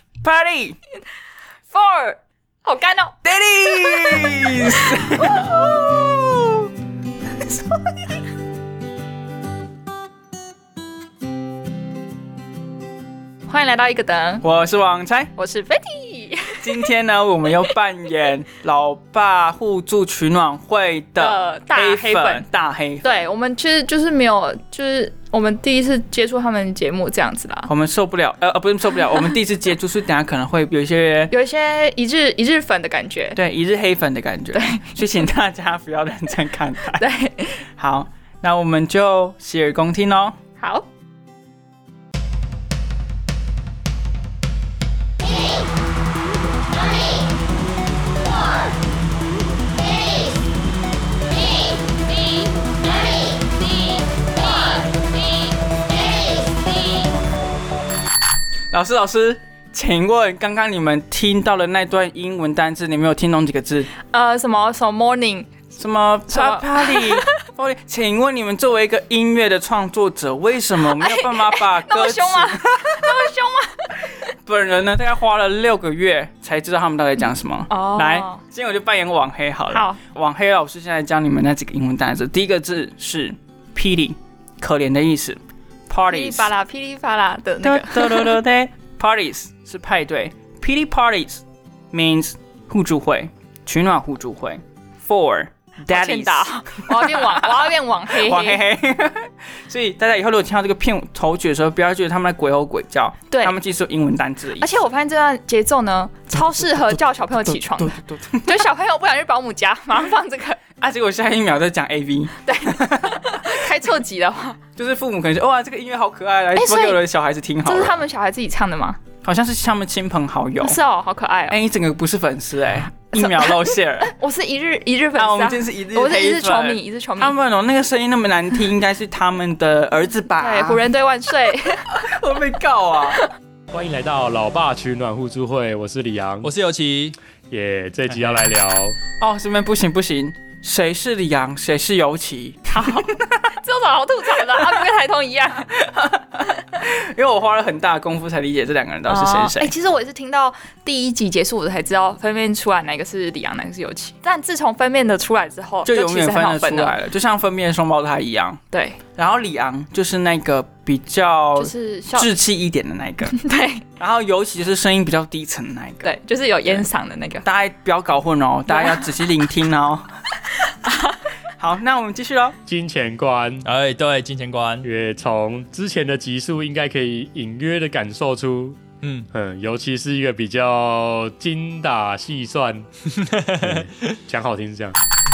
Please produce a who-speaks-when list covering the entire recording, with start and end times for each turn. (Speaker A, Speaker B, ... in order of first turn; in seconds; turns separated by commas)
Speaker A: 0.2-0.8, Speaker B: 1.7-3.2, Speaker A: 3.2-6.5, Speaker B: 3.7-5.5, Speaker B: 13.5-14.4, Speaker A: 14.4-15.3, Speaker B: 15.3-16.9, Speaker A: 16.6-23.1, Speaker B: 21.2-22.4, Speaker B: 23.0-27.7, Speaker A: 27.7-31.3, Speaker B: 31.3-33.4, Speaker A: 33.4-37.0, Speaker B: 34.5-34.9, Speaker B: 37.0-37.6, Speaker A: 37.8-40.4, Speaker B: 40.6-40.9, Speaker A: 58.7-63.9, Speaker B: 63.9-65.5, Speaker A: 65.8-73.1, Speaker B: 66.3-67.3, Speaker B: 70.9-74.3, Speaker A: 74.4-86.5, Speaker B: 77.7-78.4, Speaker B: 79.7-80.0, Speaker B: 86.1-88.4, Speaker A: 87.6-104.7, Speaker B: 95.9-98.6, Speaker B: 104.6-110.6, Speaker A: 106.4-106.9, Speaker A: 107.5-108.6, Speaker A: 110.8-113.7, Speaker B: 112.4-114.6, Speaker A: 114.8-118.0, Speaker B: 116.5-117.0, Speaker B: 117.6-119.0, Speaker A: 119.2-120.8, Speaker B: 120.6-121.6, Speaker A: 121.5-124.1, Speaker B: 123.1-127.3, Speaker A: 125.2-130.8, Speaker B: 130.4-131.9, Speaker A: 131.9-133.2, Speaker C: 133.7-136.5, Speaker D: 136.4-137.2, Speaker C: 137.5-139.0, Speaker A: 139.2-143.4, Speaker B: 142.7-145.7, Speaker A: 145.8-149.7, Speaker B: 149.1-156.9, Speaker A: 155.8-158.6, Speaker B: 158.7-159.0, Speaker A: 159.1-163.3, Speaker B: 161.6-162.3, Speaker B: 163.3-163.8, Speaker A: 164.0-166.1, Speaker B: 166.0-167.4, Speaker A: 167.4-170.1, Speaker B: 168.7-169.1, Speaker B: 170.8-171.2, Speaker A: 171.6-172.6, Speaker C: 172.7-173.7, Speaker D: 173.6-174.9, Speaker C: 174.8-182.9, Speaker D: 179.0-179.3, Speaker D: 183.1-183.9, Speaker C: 183.5-185.0